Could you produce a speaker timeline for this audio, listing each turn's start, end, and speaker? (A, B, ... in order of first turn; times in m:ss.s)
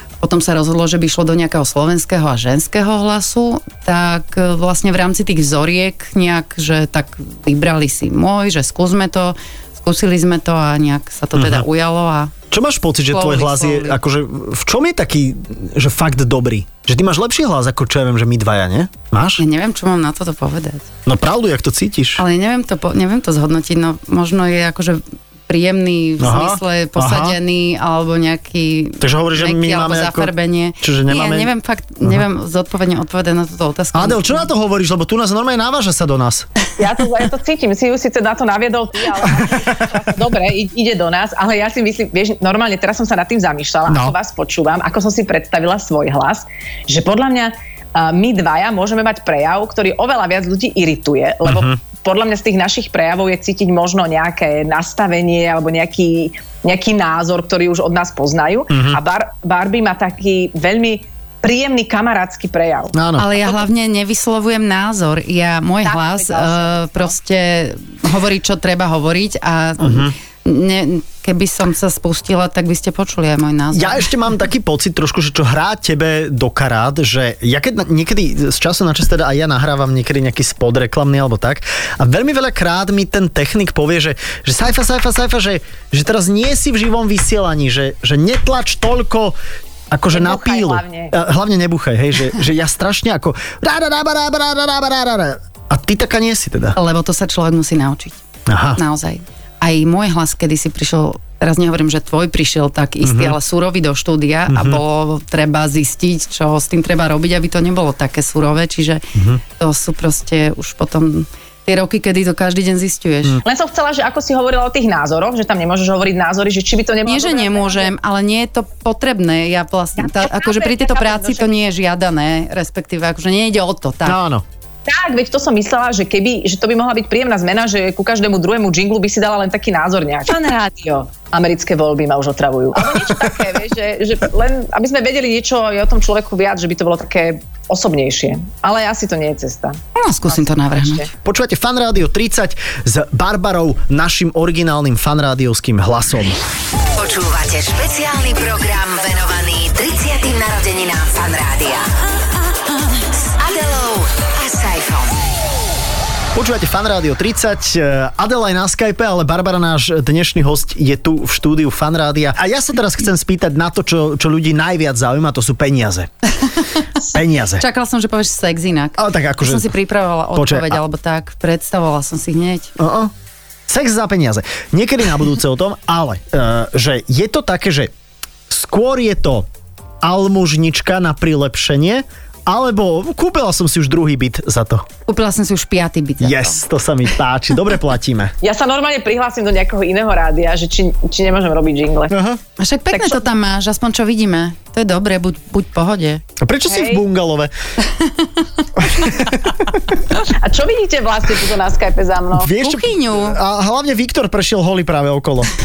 0:00.2-0:12.3 A
0:11.4-0:11.6 B
0:12.5-0:19.4 B
0:13.1-0:14.0 A
0:19.4-0:20.9 A
0:21.1-0:22.2 B
0:22.2-0:34.5 A
0:26.2-0:27.4 B
0:29.0-0:31.5 B
0:33.9-0:36.5 B
0:36.8-1:03.6 C
0:39.4-0:39.8 B
0:43.9-0:44.2 B
0:51.4-0:51.8 B
0:58.7-0:59.0 B
1:02.9-1:03.3 B
1:03.2-1:14.1 A
1:05.8-1:07.2 C
1:09.8-1:10.2 B
1:13.7-1:29.4 B
1:29.9-1:36.8 B
1:30.1-1:31.1 C
1:36.8-1:38.2 A
1:38.5-1:38.8 B
1:38.8-1:49.0 A
1:43.0-1:43.4 B
1:44.5-1:44.8 B
1:49.2-1:49.4 B
1:49.6-1:53.4 A
1:53.4-1:57.9 C
1:57.1-2:04.2 A
2:00.0-2:01.5 C
2:04.1-2:04.4 B
2:04.9-2:21.1 C
2:20.0-2:21.1 A
2:21.2-2:26.4 B
2:27.0-2:31.9 D
2:33.4-2:35.2 D
2:36.4-2:46.1 B
2:46.4-2:46.8 A
2:47.1-2:47.6 B
2:47.6-2:52.7 A
2:49.0-2:49.7 B
2:50.4-2:50.8 B
2:52.8-2:53.1 B
2:53.7-2:57.9 B
2:58.5-2:59.5 B
3:00.0-3:04.8 B
3:05.1-3:06.6 A
3:06.2-3:08.3 B
3:08.4-3:12.2 C
3:12.1-3:12.4 B
3:12.6-3:16.2 A
3:12.9-3:13.2 C
3:16.4-3:17.5 B
3:16.7-3:17.0 C
3:17.9-3:18.6 A
3:18.8-3:19.8 B
3:20.2-3:22.5 C
3:22.4-3:25.5 B
3:22.6-3:23.4 A